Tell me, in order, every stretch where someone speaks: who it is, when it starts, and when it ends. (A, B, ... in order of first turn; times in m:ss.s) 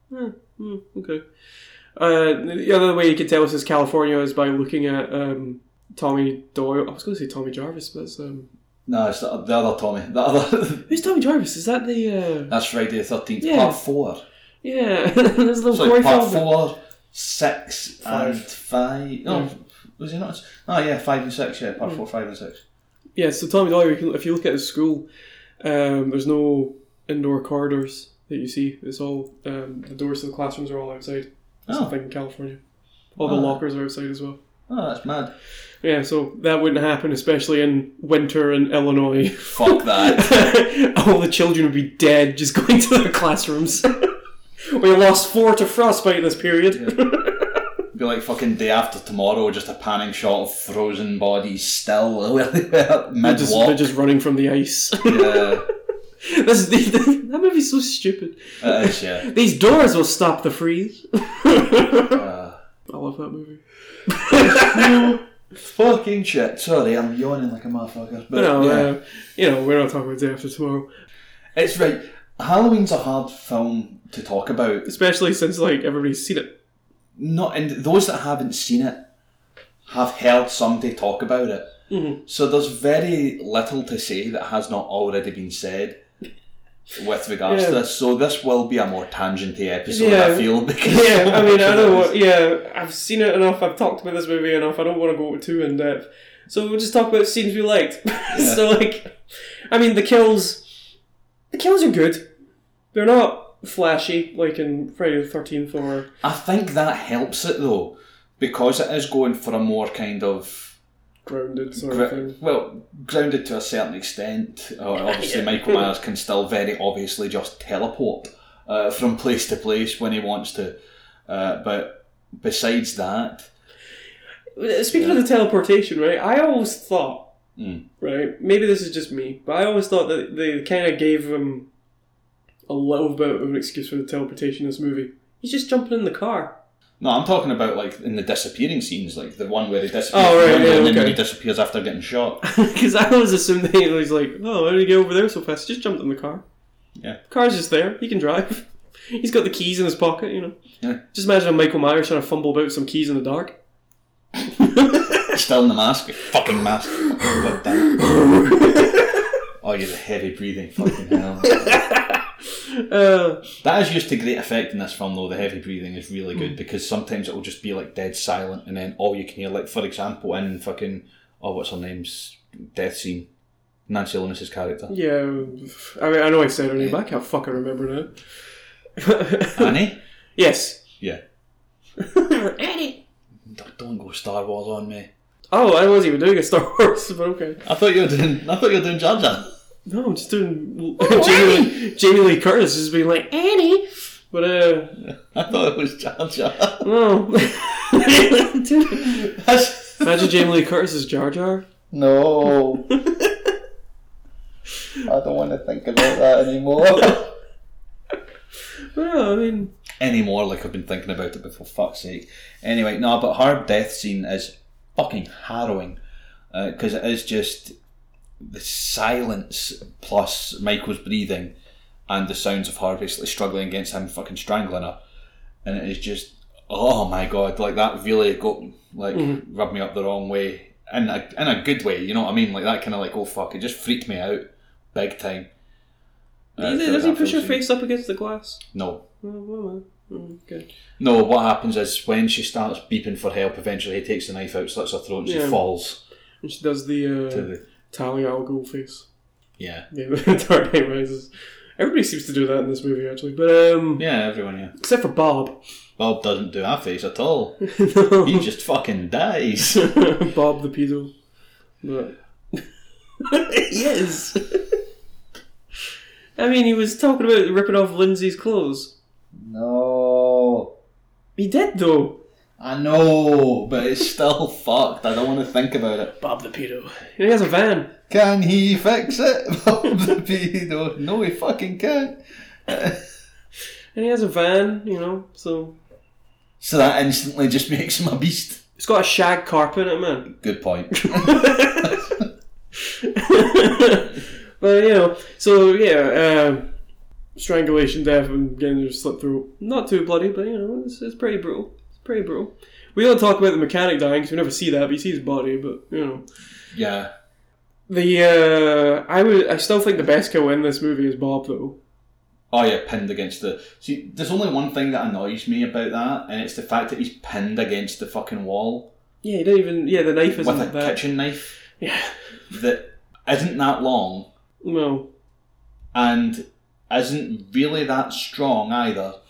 0:00.1-0:01.2 A
0:02.0-0:08.5 A
0:08.9-0:10.9 B
0:10.9-0:12.5 A
0:12.5-0:14.2 B
0:13.4-0:13.8 A
0:14.6-0:16.5 A
0:15.7-0:22.6 B
0:18.0-0:18.5 A
0:19.2-0:19.5 A
0:23.2-0:25.1 A
0:25.6-0:32.6 A
0:31.7-0:31.9 B
0:33.2-0:34.4 A
0:33.2-0:33.6 B
0:34.7-0:35.3 B
0:35.8-0:44.1 A
0:39.4-0:40.3 B
0:44.6-0:47.6 A
0:47.9-0:53.8 B
0:53.2-0:55.6 A
0:55.0-0:55.6 B
0:56.2-1:02.2 A
0:58.6-0:59.3 B
1:02.1-1:02.6 B
1:02.9-1:05.2 A
1:04.3-1:08.9 B
1:08.3-1:10.8 A
1:11.5-1:14.9 B
1:14.8-1:16.5 A
1:17.2-1:19.0 B
1:19.8-1:21.7 B
1:21.9-1:22.2 A
1:22.2-1:26.0 B
1:26.9-1:32.1 B
1:27.4-1:27.8 A
1:29.9-1:39.2 A
1:38.3-1:38.6 B
1:39.7-1:40.8 A
1:41.5-1:42.2 A
1:42.9-1:46.1 A
1:46.2-1:50.7 B
1:51.2-1:52.4 A
1:51.8-2:00.8 B
1:55.0-1:55.9 A
2:01.3-2:03.5 B
2:04.6-2:07.3 A
2:04.9-2:05.2 B
2:07.6-2:07.8 B
2:08.0-2:11.7 A
2:12.7-2:16.6 A
2:17.0-2:22.4 B
2:20.1-2:21.2 A
2:22.4-2:26.4 A
2:27.3-2:30.6 A
2:31.1-2:33.6 A
2:34.6-2:35.3 A
2:35.2-2:38.0 B
2:37.2-2:39.0 A
2:39.6-2:41.8 B
2:41.4-2:43.5 A
2:43.6-2:53.3 B
2:53.9-2:54.9 B
2:54.9-2:58.1 A
2:59.0-2:59.8 A
2:59.6-3:00.0 B
3:00.4-3:00.8 A
3:02.0-3:03.0 A
3:03.4-3:05.1 B
3:05.5-3:07.6 A
3:07.6-3:09.5 B
3:09.8-3:15.0 A
3:11.0-3:11.8 B
3:15.0-3:16.9 B
3:16.8-3:19.3 A
3:19.0-3:20.4 B
3:20.0-3:21.6 A
3:21.9-3:22.9 B
3:22.9-3:23.3 A
3:25.0-3:27.3 B
3:28.9-3:29.7 A
3:30.0-3:36.0 B
3:36.5-3:37.7 B
3:38.4-3:41.5 B
3:42.1-3:45.0 B
3:45.6-3:54.4 B
3:49.1-3:49.4 A
3:54.9-3:55.5 B
3:56.6-3:57.6 B
3:56.6-3:58.6 A
3:58.7-3:59.0 B
3:59.2-4:00.7 A
4:01.0-4:06.0 B
4:05.2-4:05.6 A
4:06.4-4:09.1 A
4:07.3-4:07.6 B
4:09.6-4:09.9 B
4:09.9-4:14.0 A
4:14.0-4:14.7 B
4:14.8-4:15.6 A
4:16.0-4:17.6 B
4:17.6-4:18.4 A
4:18.2-4:19.8 B
4:19.6-4:21.1 A
4:21.8-4:22.6 A
4:23.2-4:24.6 A
4:26.4-4:28.9 A
4:29.3-4:30.7 B
4:31.4-4:32.2 A
4:32.6-4:36.1 B
4:36.2-4:37.9 A
4:38.1-4:43.0 B
4:43.9-4:45.8 A
4:46.6-4:48.6 B
4:48.8-4:50.3 A
4:50.3-4:52.2 B
4:51.0-4:52.1 A
4:52.8-4:56.7 A
4:57.4-5:06.3 A
5:06.7-5:07.1 B
5:07.9-5:11.8 A
5:12.5-5:18.9 B
5:19.2-5:21.0 A
5:20.3-5:21.5 B
5:21.8-5:22.3 A
5:22.5-5:24.3 B
5:24.6-5:25.1 A
5:25.9-5:29.2 B